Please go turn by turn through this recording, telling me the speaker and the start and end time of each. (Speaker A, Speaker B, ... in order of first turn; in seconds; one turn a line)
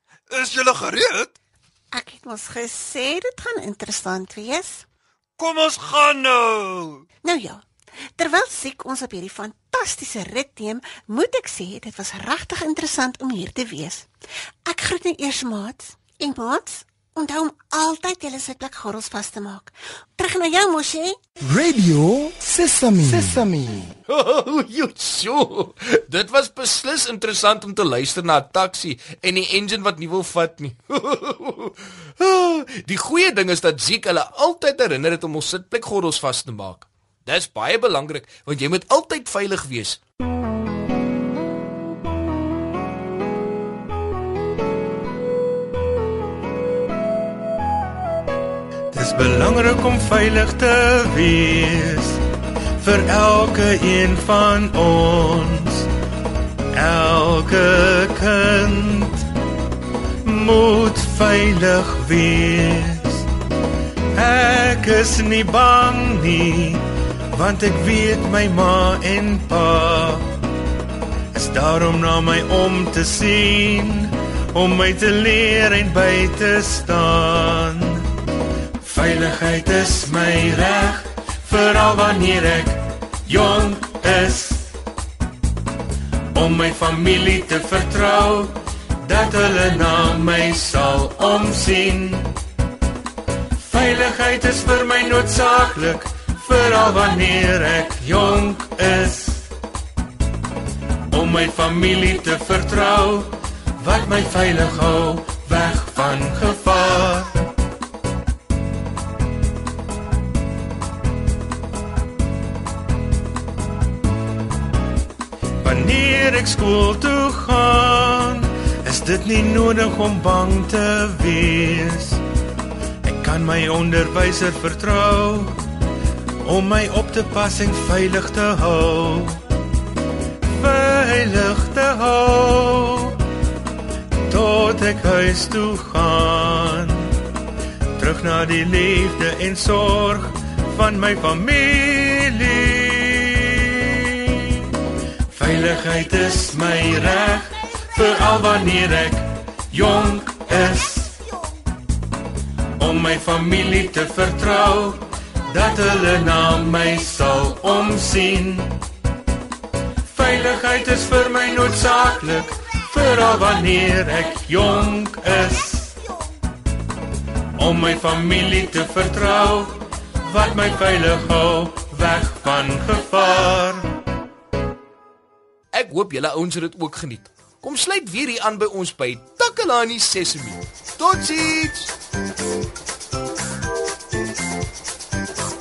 Speaker A: 0.3-1.4
Speaker B: 1.9-4.8
Speaker A: 5.4-7.0
Speaker B: 7.2-7.6
Speaker B: 8.2-14.1
Speaker B: 14.7-21.2
Speaker C: 21.4-23.9
Speaker D: 24.1-40.0
Speaker E: 48.9-52.2
Speaker E: 52.8-55.9
Speaker E: 56.8-59.2
Speaker E: 60.2-63.2
Speaker E: 64.2-66.8
Speaker E: 67.4-70.2
Speaker E: 71.3-78.0
Speaker E: 78.8-84.7
Speaker E: 86.3-92.3
Speaker E: 93.6-99.5
Speaker E: 101.1-107.3
Speaker E: 115.6-122.2
Speaker E: 123.0-125.5
Speaker E: 126.5-129.4
Speaker E: 130.6-133.1
Speaker E: 134.3-137.0
Speaker E: 138.0-144.1
Speaker E: 145.4-151.1
Speaker E: 152.8-158.8
Speaker E: 160.1-165.9
Speaker E: 167.6-169.8
Speaker E: 170.3-173.8
Speaker D: 175.7-181.9